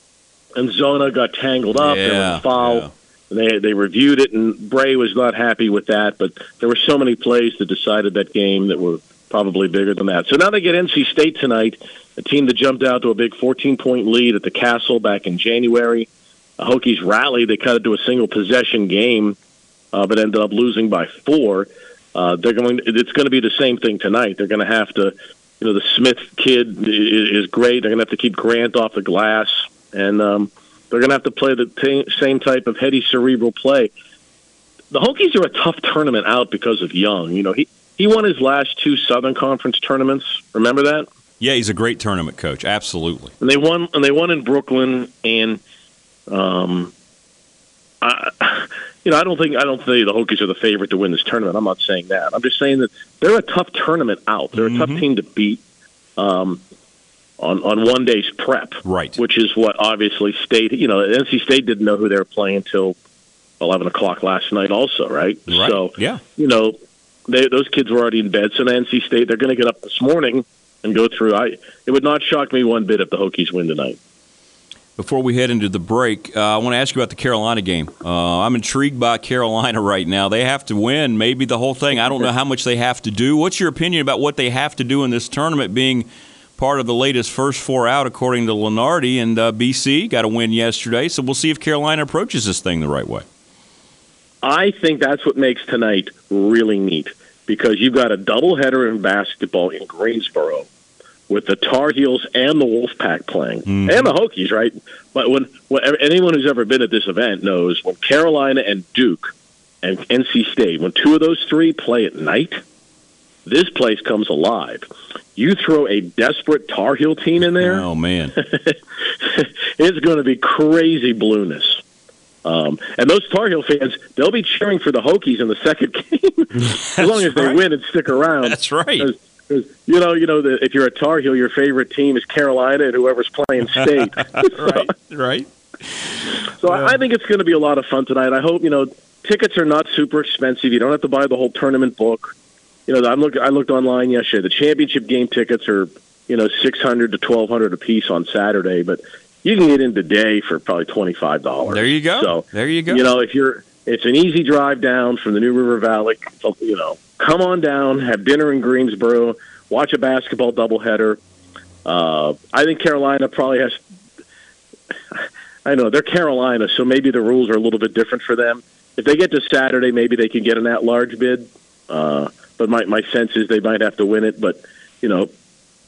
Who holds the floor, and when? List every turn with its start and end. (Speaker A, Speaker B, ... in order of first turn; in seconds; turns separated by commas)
Speaker A: 0.6-16.1, Speaker B: 1.8-2.9, Speaker A: 16.6-19.4, Speaker A: 19.9-33.9, Speaker A: 34.9-41.1, Speaker B: 41.4-43.3, Speaker A: 43.4-45.6, Speaker A: 46.3-46.9, Speaker A: 48.0-55.6, Speaker B: 54.5-55.0, Speaker A: 56.2-56.6, Speaker A: 57.4-63.0, Speaker B: 58.8-59.2, Speaker A: 63.6-66.8, Speaker B: 65.5-66.2, Speaker A: 67.3-74.0, Speaker B: 75.0-93.2, Speaker A: 94.4-100.7, Speaker A: 101.3-112.6, Speaker B: 103.7-104.1, Speaker A: 113.5-117.8, Speaker B: 117.4-118.4, Speaker A: 118.4-121.8, Speaker A: 122.4-134.8, Speaker B: 126.6-127.6, Speaker B: 128.4-129.1, Speaker B: 134.2-136.9, Speaker A: 136.6-142.3, Speaker A: 142.9-161.2, Speaker B: 151.7-153.0, Speaker A: 161.8-163.8, Speaker A: 165.1-175.3